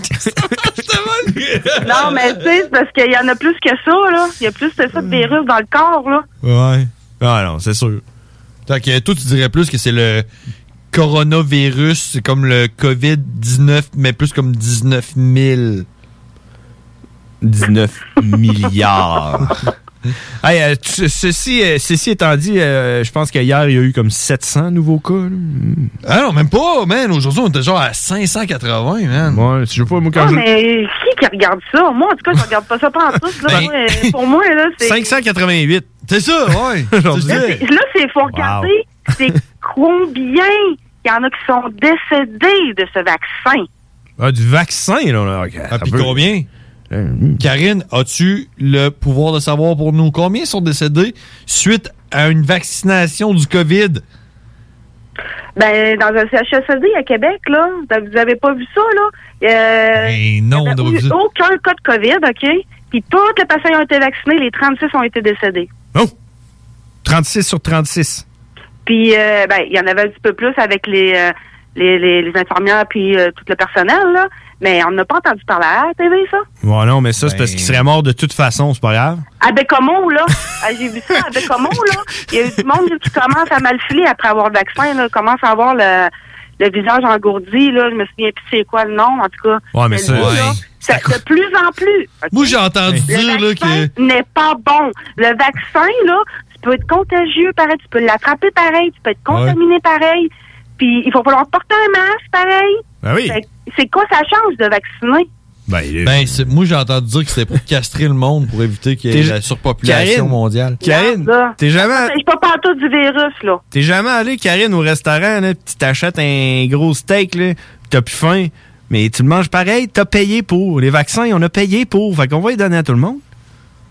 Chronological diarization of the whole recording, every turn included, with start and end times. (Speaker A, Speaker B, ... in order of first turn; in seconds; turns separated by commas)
Speaker A: 0.3-1.4, Speaker B: 1.8-6.2, Speaker C: 6.4-8.0, Speaker A: 8.7-10.2, Speaker A: 10.9-15.8, Speaker C: 17.4-19.6, Speaker C: 20.4-25.9, Speaker A: 26.0-29.4, Speaker C: 29.3-30.4, Speaker B: 30.1-35.1, Speaker C: 33.4-33.7, Speaker A: 33.5-34.0, Speaker C: 34.8-35.9, Speaker A: 36.1-37.6, Speaker C: 36.9-37.6, Speaker B: 37.3-43.7, Speaker C: 38.3-38.7, Speaker C: 44.2-46.2, Speaker A: 45.7-46.5, Speaker C: 46.9-47.4, Speaker A: 47.4-54.0, Speaker B: 55.5-65.7, Speaker A: 60.0-61.1, Speaker C: 67.0-68.2, Speaker B: 68.8-76.4, Speaker C: 76.6-79.2, Speaker A: 77.2-77.7, Speaker B: 79.4-92.5, Speaker C: 89.7-91.2, Speaker A: 90.1-90.6, Speaker A: 92.3-93.9, Speaker B: 93.1-105.3, Speaker A: 99.3-99.6, Speaker C: 103.0-103.4, Speaker C: 105.7-106.4, Speaker A: 106.0-110.8, Speaker C: 109.1-112.1, Speaker B: 110.8-113.6, Speaker C: 113.7-123.2